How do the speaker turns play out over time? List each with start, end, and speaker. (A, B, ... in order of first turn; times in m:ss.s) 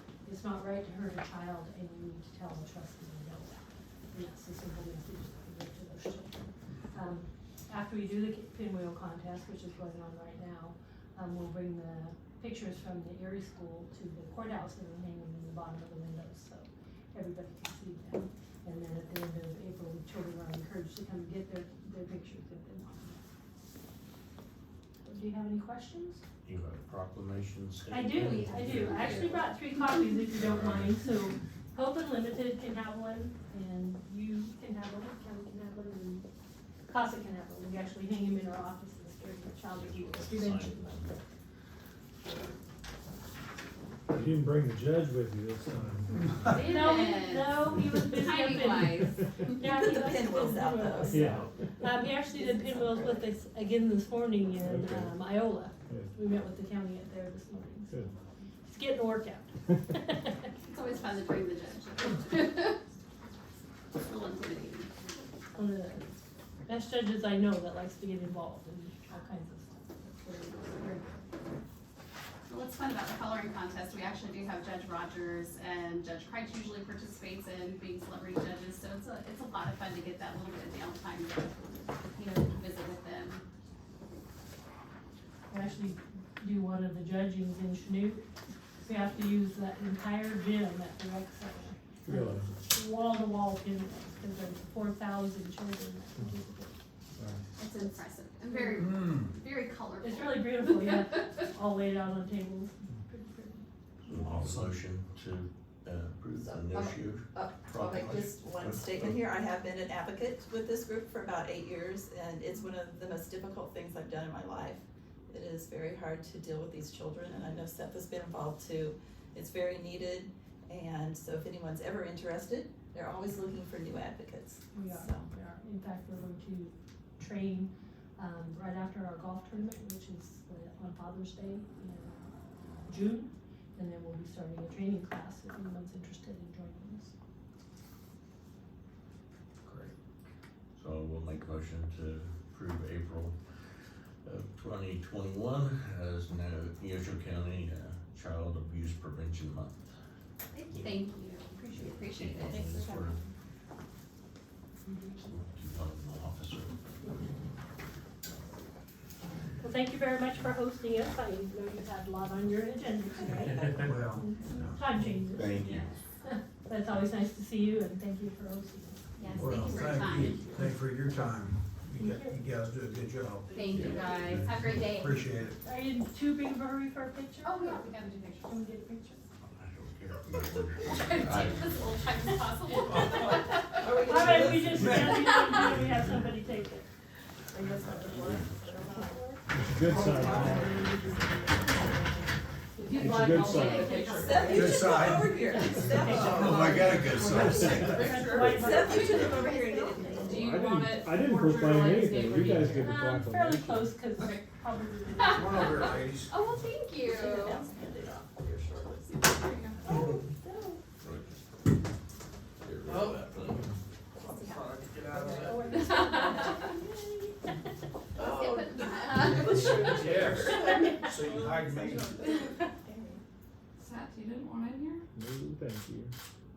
0:00.2-0:23.3 A
0:25.0-0:26.2 A
0:26.4-0:29.4 B
0:27.9-0:36.3 A
0:28.2-0:29.8 C
0:30.4-0:30.9 B
0:36.9-0:41.2 A
0:39.8-0:41.1 B
0:44.1-0:46.6 D
0:46.4-0:49.6 C
0:46.5-0:58.0 A
0:49.4-0:51.4 E
0:51.1-0:51.5 D
0:54.6-0:55.2 D
0:58.6-1:00.5 A
1:00.6-1:02.8 C
1:03.9-1:05.1 C
1:05.5-1:06.1 A
1:06.6-1:11.3 A
1:12.5-1:23.4 C
1:25.5-1:28.3 A
1:28.8-1:36.8 A
1:32.0-1:32.5 D
1:37.2-1:37.4 D
1:37.6-1:41.1 C
1:38.5-1:39.0 A
1:38.8-1:39.2 F
1:40.0-1:43.6 A
1:44.1-1:49.2 B
1:46.4-2:05.3 E
1:48.0-1:48.3 F
2:04.7-2:12.3 A
2:12.8-2:17.1 A
2:19.7-2:19.9 F
2:20.7-2:23.4 B
2:24.2-2:29.9 B
2:30.5-2:33.3 C
2:30.7-2:31.0 B
2:31.7-2:33.2 B
2:34.8-2:35.2 A
2:35.2-2:36.8 B
2:39.6-2:49.0 A
2:43.8-2:44.9 F
2:45.3-2:45.9 B
2:45.6-2:45.9 C
2:49.2-2:50.6 C
2:49.4-2:53.7 F
2:52.0-2:52.4 A
2:53.5-2:55.5 C
2:53.7-2:54.7 B
2:54.5-2:55.6 F
2:55.6-2:59.2 A
2:57.4-2:58.6 C
2:59.4-3:01.9 B
3:00.8-3:04.0 C
3:03.8-3:04.8 E
3:03.9-3:06.8 A
3:04.2-3:05.0 B
3:05.2-3:05.8 C
3:07.5-3:09.3 E
3:08.9-3:12.2 A
3:09.5-3:10.8 D
3:09.9-3:10.4 E
3:12.8-3:14.7 A
3:12.8-3:14.7 G
3:12.9-3:13.8 D
3:13.3-3:14.6 C
3:14.1-3:20.5 E
3:14.5-3:15.5 F
3:15.4-3:20.4 A
3:16.2-3:18.1 F
3:17.1-3:17.7 C
3:17.4-3:18.6 D
3:18.3-3:20.2 C
3:20.2-3:23.0 G
3:20.3-3:24.0 D
3:22.7-3:26.0 A
3:24.2-3:24.4 C
3:25.1-3:27.6 C
3:25.3-3:26.4 F
3:27.0-3:29.2 E
3:29.1-3:29.9 C
3:29.8-3:30.2 E
3:29.8-3:30.8 A
3:31.0-3:31.4 B
3:32.6-3:33.6 B
3:32.9-3:33.5 E
3:34.2-3:35.7 E
3:34.4-3:34.6 C
3:34.6-3:35.5 F
3:35.3-3:37.4 A
3:35.6-3:36.6 C
3:38.2-3:43.2 E
3:38.2-3:40.9 C
3:39.9-3:42.5 F
3:43.8-3:45.0 G
3:45.1-3:46.1 D